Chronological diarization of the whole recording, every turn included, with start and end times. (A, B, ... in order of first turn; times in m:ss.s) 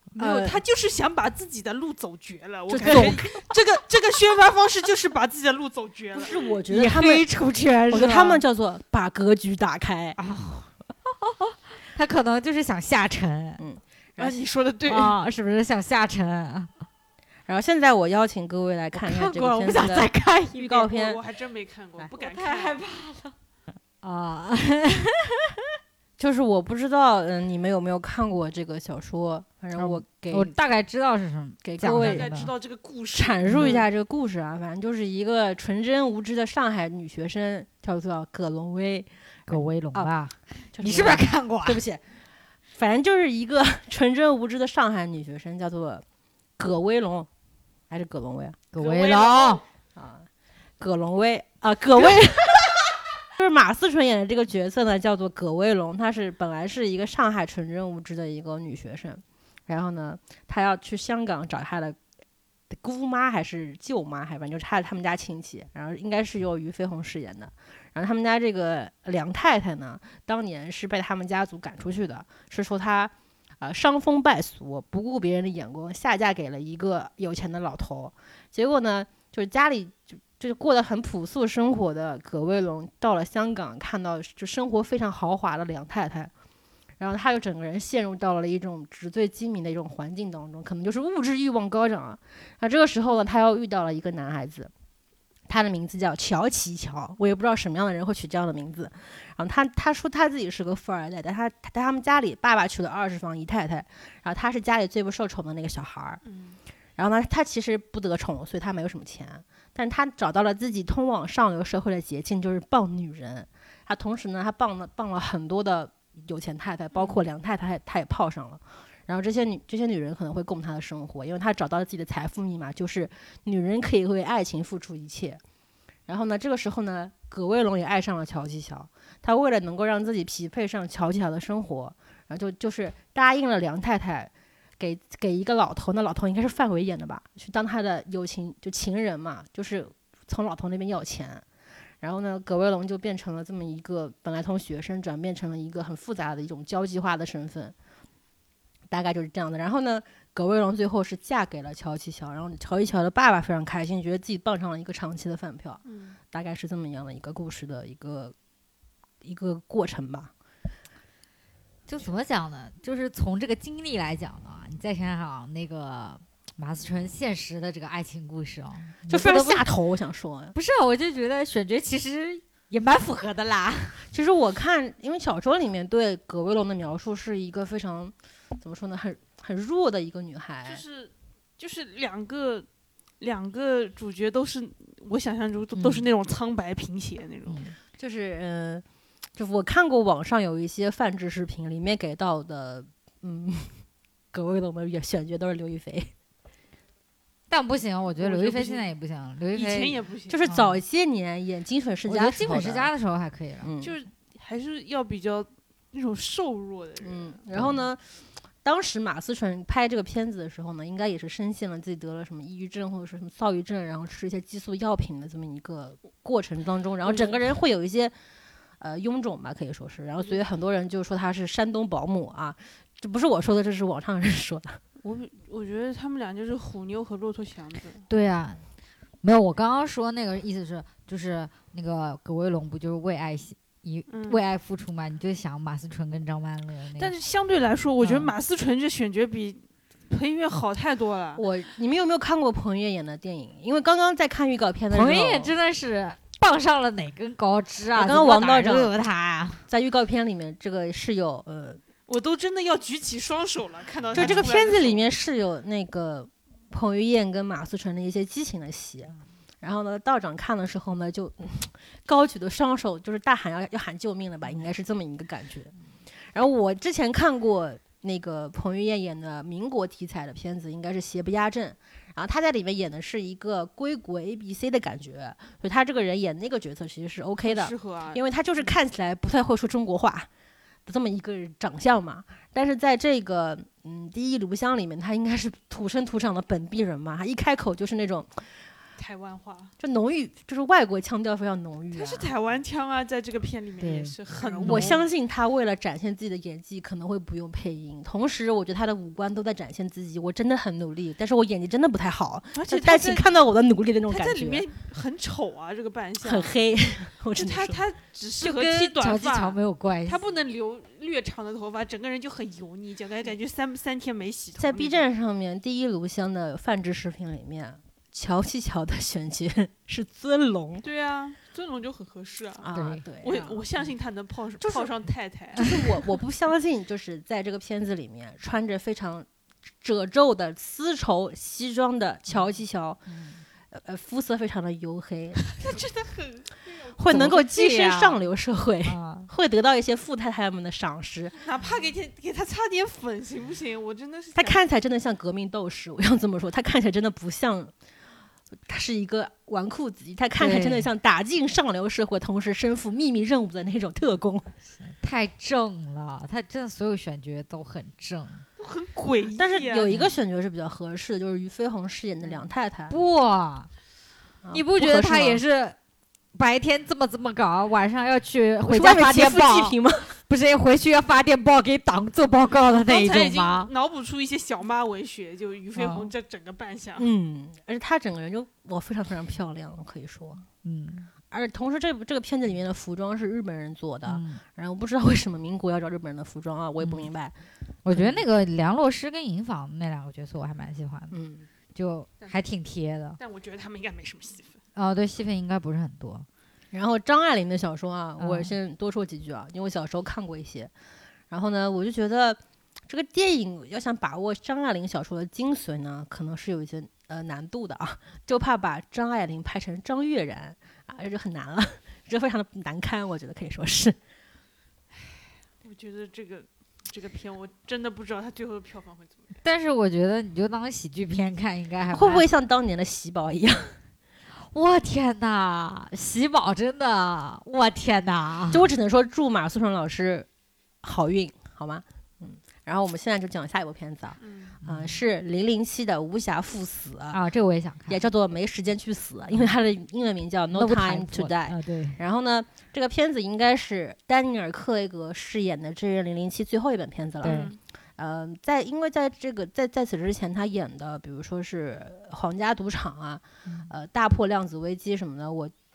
0:00.2-0:00.6 A
0:00.2-0:06.5 B
0:02.7-0:03.4 A
0:02.9-0:03.2 C
0:06.1-0:07.2 A
0:06.7-0:08.4 C
0:07.9-0:10.2 A
0:10.2-0:13.6 C
0:13.6-0:14.4 A
0:14.2-0:15.2 B
0:14.9-0:16.7 C
0:17.5-0:21.2 A
0:18.9-0:20.8 C
0:20.6-0:22.8 B
0:22.0-0:23.3 C
0:24.0-0:25.6 C
0:26.2-0:30.5 A
0:29.7-0:32.5 C
0:31.6-0:32.3 A
0:31.8-0:33.8 B
0:33.1-0:40.1 A
0:33.4-0:33.7 C
0:39.5-0:41.8 C
0:40.7-0:42.0 A
0:42.7-0:46.0 A
0:46.6-0:47.3 A
0:47.9-0:48.6 A
0:48.7-0:49.6 C
0:48.8-0:49.6 B
0:50.0-0:50.3 A
0:50.8-1:02.0 A
1:02.7-1:26.3 A
1:27.0-1:34.7 A
1:35.5-1:46.2 A
1:46.2-1:46.6 B
1:47.0-2:05.4 A
1:56.9-1:57.2 B
2:06.1-2:21.4 A
2:22.0-2:27.7 A
2:28.9-2:38.3 A
2:35.8-2:36.2 B
2:39.2-2:40.3 A
2:41.9-2:49.7 C
2:49.1-2:50.5 A
2:50.5-2:54.1 C
2:54.1-3:00.8 A
3:00.6-3:02.7 B
3:03.2-3:07.6 B
3:05.7-3:06.1 C
3:07.5-3:07.8 C
3:08.0-3:08.8 A
3:09.4-3:13.8 A
3:14.3-3:16.1 A
3:17.5-3:20.8 C
3:18.1-3:18.9 B
3:19.5-3:20.4 B
3:20.3-3:22.9 A
3:22.1-3:23.7 C
3:23.6-3:24.0 A
3:23.8-3:27.4 B
3:27.0-3:28.0 A
3:27.5-3:27.8 C
3:28.6-3:38.1 A
3:37.0-3:37.4 B
3:38.8-3:44.8 A
3:45.0-3:48.1 B
3:48.1-3:48.6 C
3:49.2-3:57.1 C
3:54.1-3:54.4 B
3:57.0-4:01.4 B
3:58.0-3:58.3 C
4:01.4-4:05.5 A
4:04.9-4:09.6 C
4:07.9-4:08.9 A
4:09.7-4:11.8 A
4:12.1-4:15.0 B
4:14.1-4:25.7 A
4:14.1-4:14.5 C
4:26.3-4:40.3 A
4:37.4-4:38.8 B
4:40.8-4:48.5 A
4:49.0-4:49.7 B
4:49.8-4:52.3 A
4:51.9-4:55.0 B
4:53.8-4:55.0 C
4:54.6-5:04.7 A
5:02.5-5:03.4 B
5:04.1-5:06.6 B
5:06.2-5:07.8 A
5:07.3-5:15.0 B
5:08.4-5:08.7 A
5:08.6-5:10.2 C
5:14.6-5:20.8 A
5:20.8-5:25.9 B
5:22.6-5:23.6 A
5:22.7-5:23.0 C
5:24.6-5:24.9 A
5:25.5-5:29.3 A
5:29.8-5:33.0 A
5:32.3-5:33.4 C
5:33.7-5:35.5 A
5:35.5-5:37.3 B
5:36.9-5:41.4 A
5:37.1-5:38.2 C
5:38.8-5:39.3 C
5:41.4-5:44.6 B
5:44.3-5:47.7 A
5:48.7-5:54.5 A
5:50.4-5:50.9 C
5:54.8-5:58.4 C
5:58.6-5:59.9 B
5:59.3-6:03.0 A
6:02.9-6:03.7 C
6:04.4-6:05.4 A
6:04.5-6:05.8 C
6:06.3-6:13.7 C
6:08.6-6:10.2 A
6:12.6-6:17.1 B
6:15.7-6:16.1 C
6:17.0-6:20.4 A
6:20.6-6:21.1 C
6:21.3-6:27.4 A
6:24.0-6:24.4 C
6:26.8-6:27.1 C
6:27.8-6:31.1 C
6:27.9-6:28.2 A
6:31.1-6:31.5 A
6:31.7-6:33.2 C
6:32.2-6:32.4 B
6:33.2-6:34.6 B
6:34.8-6:36.3 C
6:36.7-6:40.7 A
6:38.2-6:38.5 C
6:41.3-6:54.0 A
6:55.6-6:59.4 B
6:59.4-7:02.2 C
7:01.9-7:03.7 A
7:04.4-7:08.6 C
7:08.5-7:10.3 A
7:10.8-7:17.2 A
7:14.2-7:14.6 B
7:14.6-7:15.0 C
7:17.1-7:18.0 C
7:17.9-7:35.5 A
7:20.5-7:22.0 C
7:27.2-7:27.6 B
7:27.2-7:27.5 C
7:33.4-7:33.7 C